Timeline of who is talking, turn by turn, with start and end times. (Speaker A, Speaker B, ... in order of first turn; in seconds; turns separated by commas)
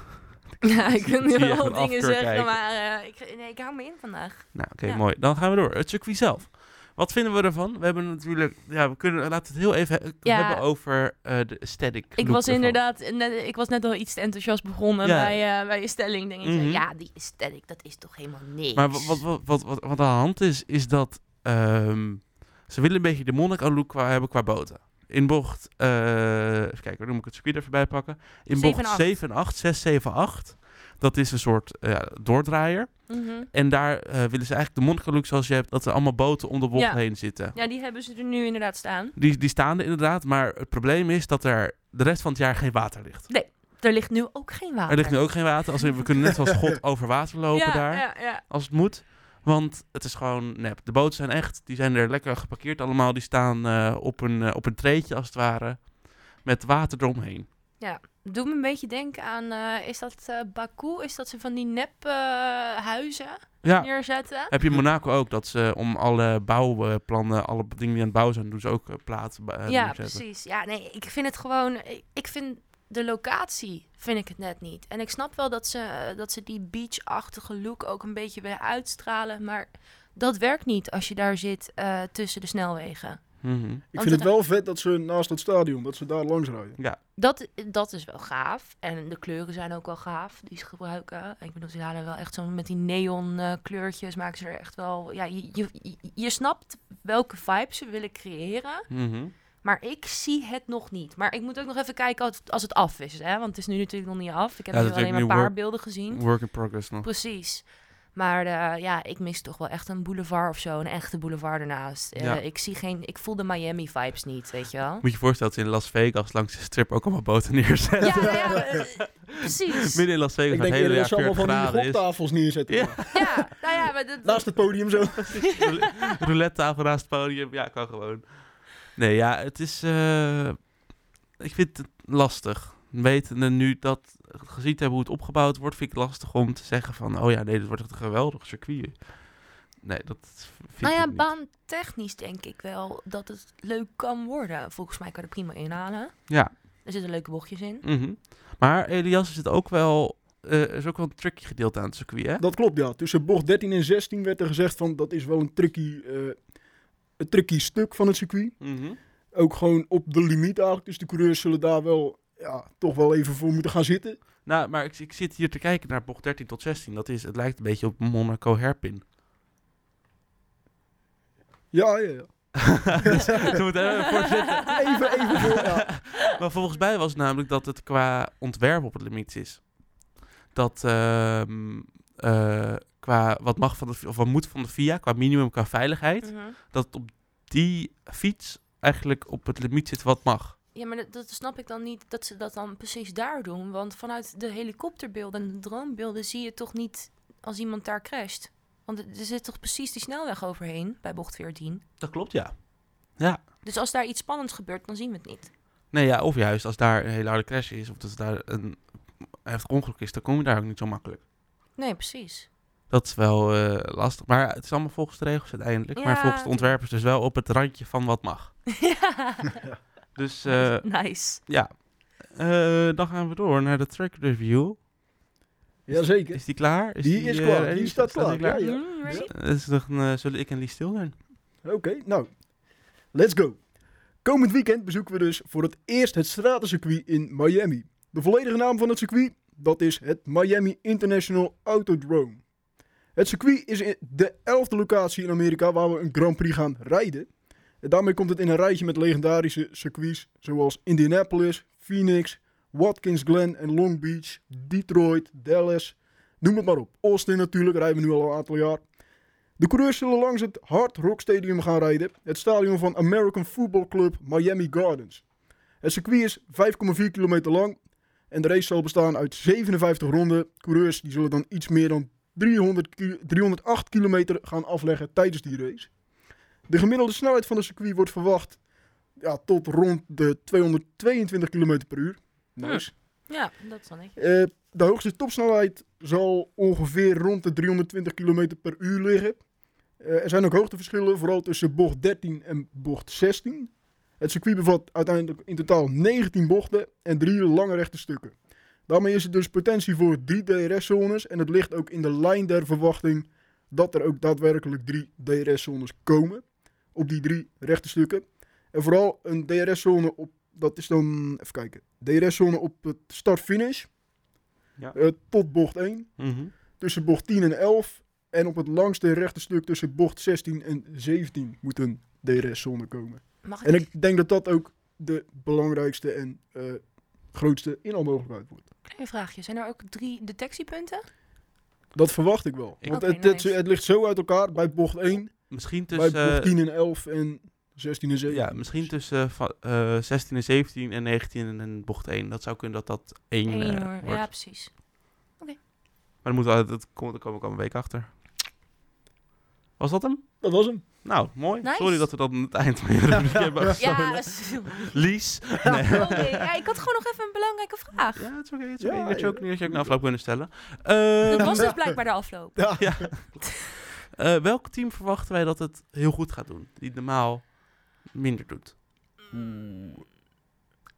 Speaker A: 0.5-2.5, Speaker B: 0.6-5.0, Speaker A: 4.5-12.8, Speaker B: 10.2-10.6, Speaker B: 12.2-19.2, Speaker A: 15.0-15.5, Speaker A: 16.4-16.8, Speaker A: 18.7-37.5, Speaker B: 28.5-29.1, Speaker B: 33.1-33.5, Speaker B: 36.7-39.1, Speaker A: 39.1-43.3, Speaker B: 43.3-46.0, Speaker A: 44.9-57.5, Speaker B: 47.5-48.4, Speaker B: 57.8-64.5, Speaker A: 63.6-70.2, Speaker B: 69.7-83.4, Speaker A: 83.4-83.8, Speaker C: 83.9-86.8, Speaker B: 83.9-84.3, Speaker B: 87.2-98.9, Speaker A: 98.9-99.3, Speaker B: 99.6-115.0, Speaker A: 104.7-107.1, Speaker A: 115.0-122.1, Speaker B: 118.0-120.0, Speaker C: 118.2-118.8, Speaker C: 120.5-123.5, Speaker A: 122.7-123.5, Speaker B: 123.1-126.1, Speaker C: 124.2-125.5, Speaker A: 125.2-130.7, Speaker A: 131.4-141.3, Speaker B: 140.8-147.8, Speaker A: 147.8-152.4, Speaker C: 152.4-156.4, Speaker C: 157.2-158.6, Speaker A: 158.6-159.0, Speaker C: 159.3-164.2, Speaker A: 164.4-169.0, Speaker C: 171.7-173.6, Speaker A: 172.6-179.7, Speaker B: 173.9-175.5, Speaker C: 174.7-175.9, Speaker A: 180.5-190.6, Speaker B: 186.2-186.6, Speaker B: 190.7-201.8, Speaker A: 202.0-202.6, Speaker A: 203.2-203.4, Speaker B: 203.6-205.5, Speaker A: 205.9-211.2, Speaker B: 211.8-212.5, Speaker A: 212.9-218.5, Speaker B: 215.9-216.7, Speaker B: 218.7-219.6, Speaker A: 220.1-224.8, Speaker B: 220.4-221.4, Speaker C: 225.9-229.3, Speaker A: 225.9-231.1, Speaker B: 228.5-229.3, Speaker C: 231.6-232.3, Speaker C: 233.1-233.6, Speaker C: 234.2-242.4, Speaker C: 243.2-247.3, Speaker C: 247.8-258.8, Speaker C: 259.6-265.2, Speaker C: 265.8-267.8, Speaker C: 268.3-275.9, Speaker C: 276.7-278.6, Speaker C: 279.2-282.9, Speaker B: 282.6-284.1, Speaker C: 284.1-289.4, Speaker C: 290.0-298.3, Speaker C: 298.9-306.4, Speaker C: 306.9-313.9, Speaker C: 314.9-316.2, Speaker A: 316.2-316.5, Speaker C: 316.8-328.7, Speaker B: 323.4-323.9, Speaker B: 328.9-331.1, Speaker C: 331.9-338.9, Speaker B: 332.9-333.5, Speaker A: 335.5-336.5, Speaker A: 338.3-344.3, Speaker B: 343.5-345.6, Speaker A: 346.2-348.2, Speaker A: 349.8-350.4, Speaker C: 350.4-350.8, Speaker A: 351.0-356.4, Speaker B: 351.6-352.1, Speaker C: 353.1-353.7, Speaker B: 353.8-355.0, Speaker C: 355.6-356.3, Speaker B: 355.8-358.3, Speaker A: 358.1-361.7, Speaker C: 358.8-360.0, Speaker B: 361.2-363.5, Speaker C: 361.4-361.9, Speaker C: 362.6-363.1, Speaker A: 362.8-368.8